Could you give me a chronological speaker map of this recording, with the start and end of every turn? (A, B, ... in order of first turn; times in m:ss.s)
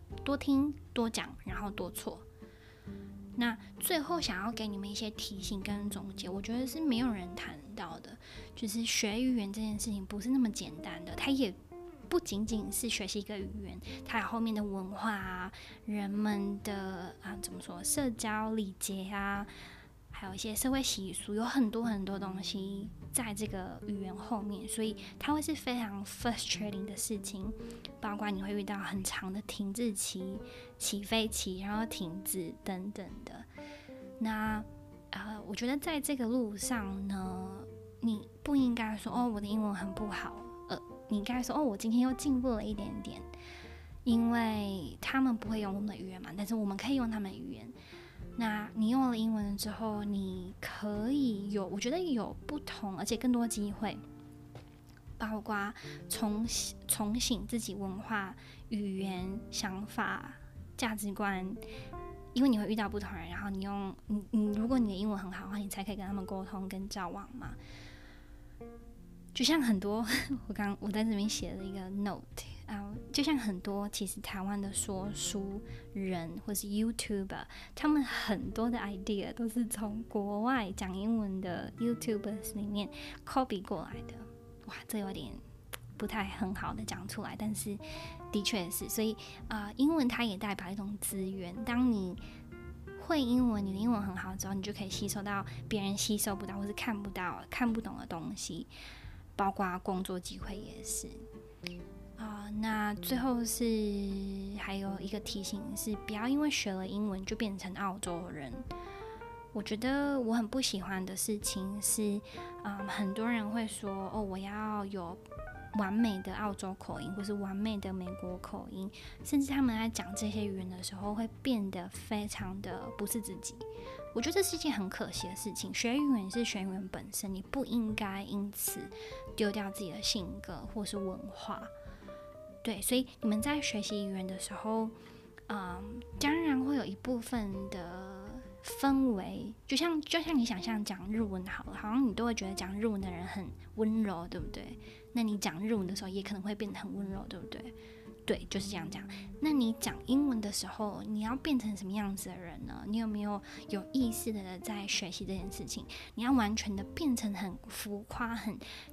0:00.2-0:02.3 A
0:03.4-0:11.6 A
0:12.1-0:19.5 A
0:20.1-0:33.5 A
0:34.2-0:43.3 A
0:44.1-0:47.7 A
0:48.4-0:54.0 A
0:55.2-1:01.6 A
1:02.3-1:07.6 A
1:09.3-1:25.4 A
1:26.0-1:32.2 A
1:33.0-1:38.7 A
1:39.4-1:41.2 A
1:42.2-1:48.7 A
1:49.5-1:55.2 A
1:55.7-2:11.7 A
2:12.6-2:14.9 A
2:15.5-2:27.7 A
2:28.3-2:38.6 A